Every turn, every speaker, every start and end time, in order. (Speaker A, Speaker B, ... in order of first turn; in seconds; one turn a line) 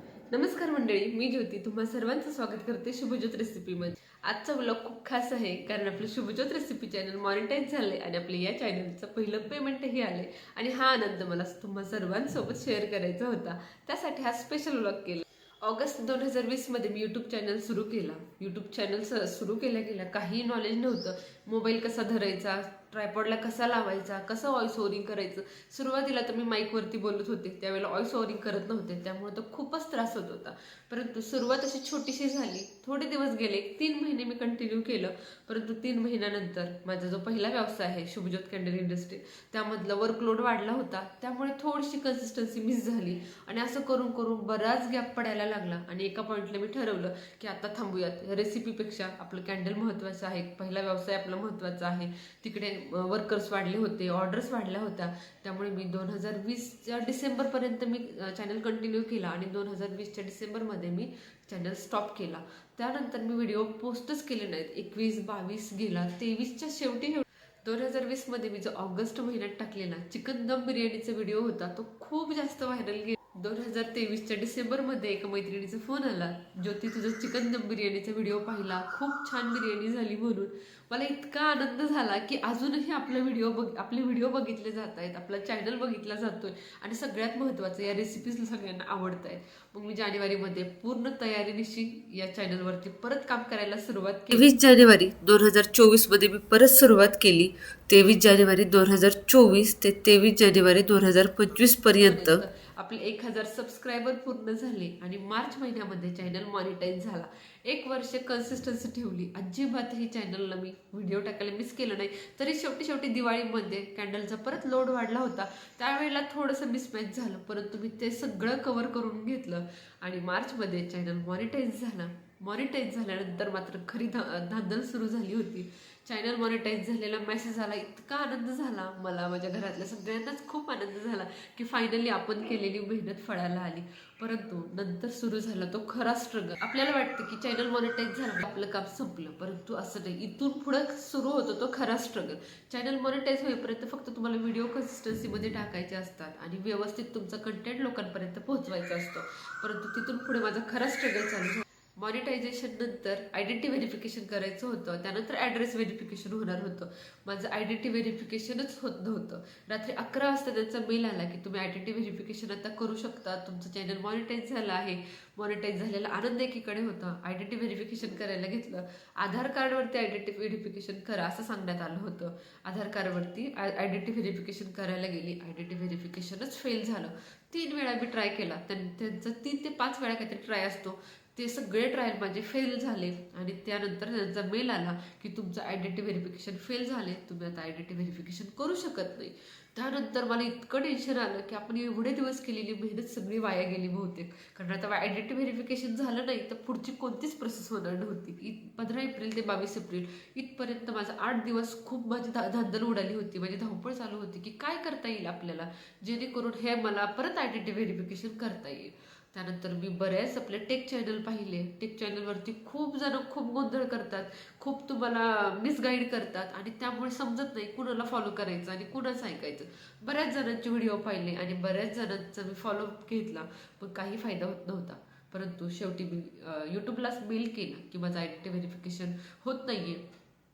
Speaker A: 0.3-230.0